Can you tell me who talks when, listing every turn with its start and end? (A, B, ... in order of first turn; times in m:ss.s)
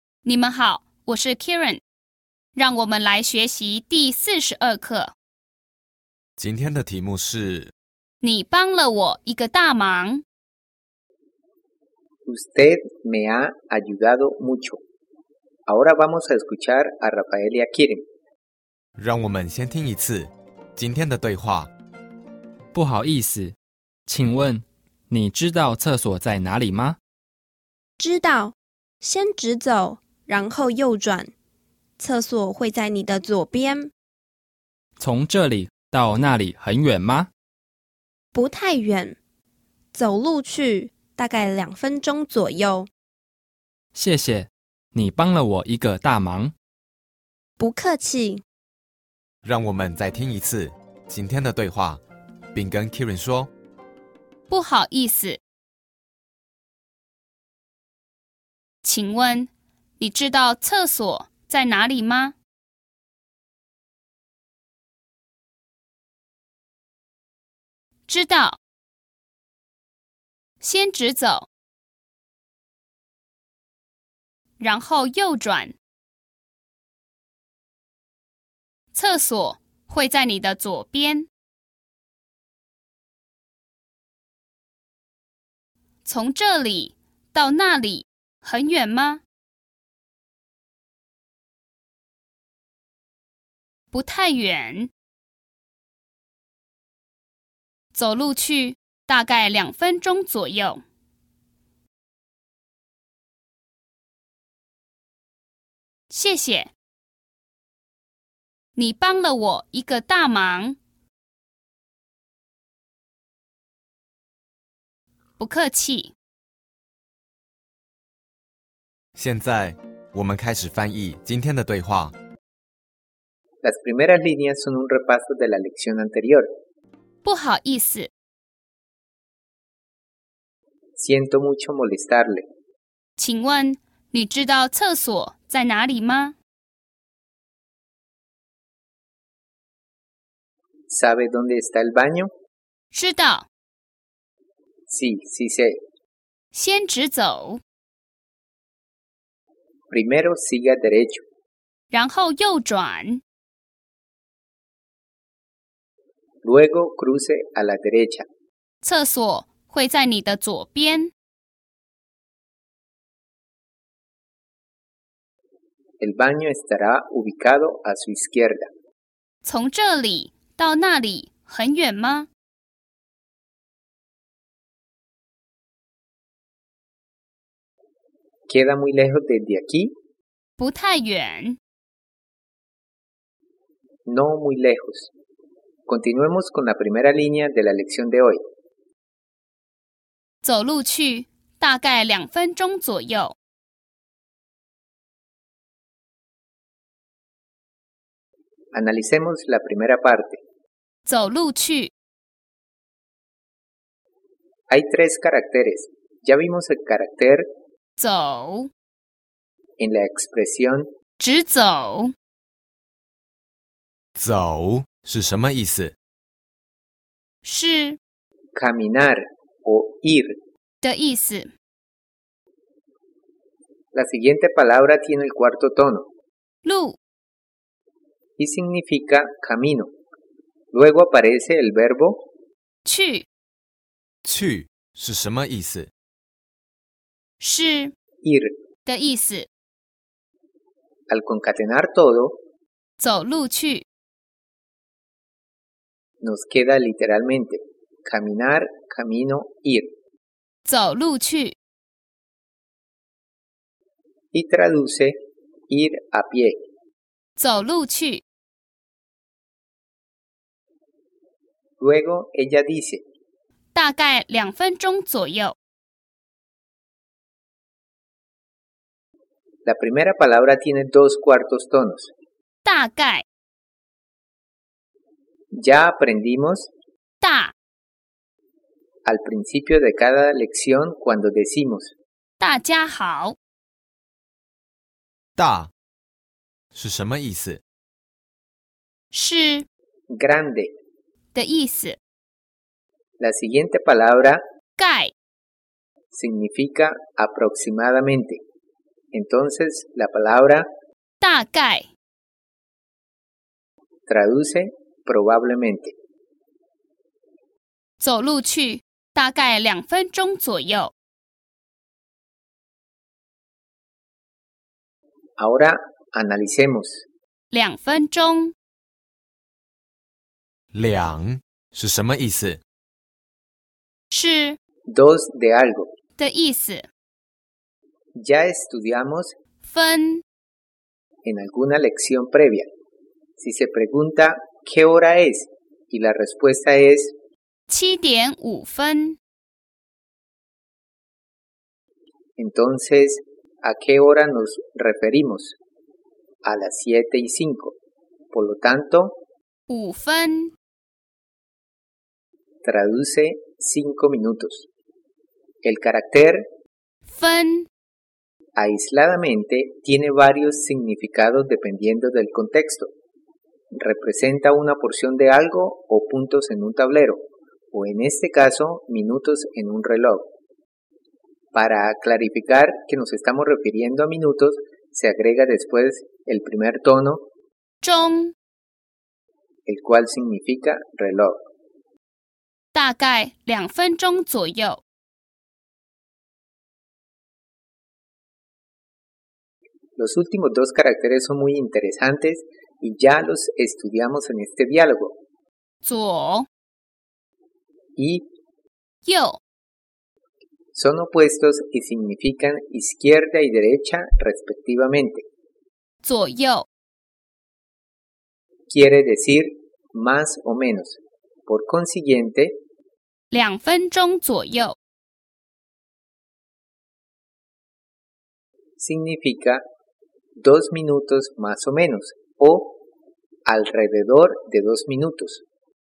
0:00.2-0:01.8 A
0:02.6-0:05.1 A
0:06.4-0:07.7 B
0:08.2-0:10.2 A
0:12.3-0:14.8 C
0:15.7-0:18.0 C
0:19.0-0:21.7 B
0:22.7-0:23.6 D
0:24.1-0:27.0 D
0:28.0-0:31.3 E
0:32.0-0:33.9 E
0:35.0-0:37.3 D
0:38.3-0:39.2 E
0:39.9-0:42.9 E
0:43.9-0:46.5 D
0:47.6-0:48.4 E
0:49.4-0:52.0 B
0:52.5-0:53.5 B
0:54.5-0:55.4 A
0:58.8-1:02.4 A
1:08.1-1:08.6 A
1:10.6-1:11.5 A
1:14.6-1:15.8 A
1:18.9-1:21.3 A
1:26.0-1:29.2 A
1:33.9-1:34.9 A
1:37.9-1:40.8 A
1:46.1-1:46.7 A
1:48.8-1:50.8 A
1:55.4-1:56.1 A
1:59.2-2:02.2 B
2:03.6-2:06.5 C
2:07.2-2:08.1 A
2:11.0-2:12.4 C
2:13.2-2:16.4 A
2:20.9-2:22.3 C
2:22.9-2:23.5 A
2:24.9-2:25.8 C
2:26.5-2:27.6 A
2:29.9-2:31.2 C
2:31.9-2:33.2 A
2:36.4-2:38.2 C
2:38.8-2:41.1 A
2:46.0-2:48.7 C
2:49.4-2:52.3 A
2:58.5-2:59.9 C
3:00.6-3:01.6 A
3:04.1-3:05.1 C
3:05.9-3:08.4 C
3:10.4-3:13.3 A
3:18.7-3:20.4 C
3:21.1-3:21.9 A
3:24.7-3:27.4 C
3:28.0-3:28.7 A
3:29.8-3:30.9 C
3:31.2-3:32.1 A
3:34.2-3:36.0 B
3:37.4-3:38.0 A
3:38.6-3:40.4 C
3:40.8-3:41.5 A
3:43.9-3:46.1 C
3:46.6-3:47.0 A
3:48.4-3:49.9 C
3:50.7-3:52.2 C
3:52.8-3:53.2 A
3:54.2-3:55.9 B
3:57.4-3:57.9 A
3:58.2-3:58.5 C
3:58.9-3:59.5 A
4:01.1-4:02.4 C
4:03.0-4:03.8 A
4:06.2-4:09.9 C
4:10.6-4:11.6 A
4:14.3-4:15.2 C
4:15.7-4:16.6 C
4:17.4-4:18.2 A
4:21.8-4:23.0 C
4:23.7-4:25.6 A
4:29.6-4:32.1 C
4:32.6-4:33.2 A
4:35.5-4:36.7 C
4:37.2-4:37.5 A
4:39.0-4:41.9 C
4:42.4-4:43.4 A
4:45.4-4:45.7 B
4:46.7-4:47.6 B
4:49.1-4:49.6 A
4:50.1-4:50.7 C
4:51.3-4:52.0 A
4:53.2-4:54.4 C
4:54.8-4:55.1 A
4:56.1-4:58.4 C
4:59.1-5:00.7 C
5:01.2-5:01.9 A
5:04.1-5:05.9 C
5:08.0-5:10.9 A
5:15.4-5:17.0 C
5:17.5-5:18.5 A
5:20.7-5:22.6 B
5:24.1-5:24.6 A
5:24.9-5:25.9 C
5:26.2-5:26.9 A
5:28.2-5:29.4 C
5:29.6-5:30.2 A
5:31.2-5:32.7 C
5:33.4-5:37.1 C
5:37.7-5:39.2 A
5:42.4-5:45.6 C
5:46.4-5:47.8 C
5:48.3-5:49.2 C
5:49.7-5:50.5 A
5:52.6-5:54.7 C
5:55.6-5:56.5 C
5:57.1-5:57.7 A
5:58.6-6:02.9 C
6:03.7-6:07.2 C
6:07.7-6:10.3 C
6:11.5-6:17.2 C
6:17.8-6:18.3 A
6:19.7-6:21.4 C
6:22.7-6:24.8 A
6:30.0-6:35.1 C
6:35.8-6:36.5 A
6:38.0-6:38.3 C
6:39.0-6:39.4 A
6:40.7-6:45.2 C
6:46.0-6:46.7 A
6:48.7-6:52.6 C
6:53.3-6:54.8 A
6:58.8-6:59.6 C
7:00.4-7:02.8 C
7:03.5-7:05.4 C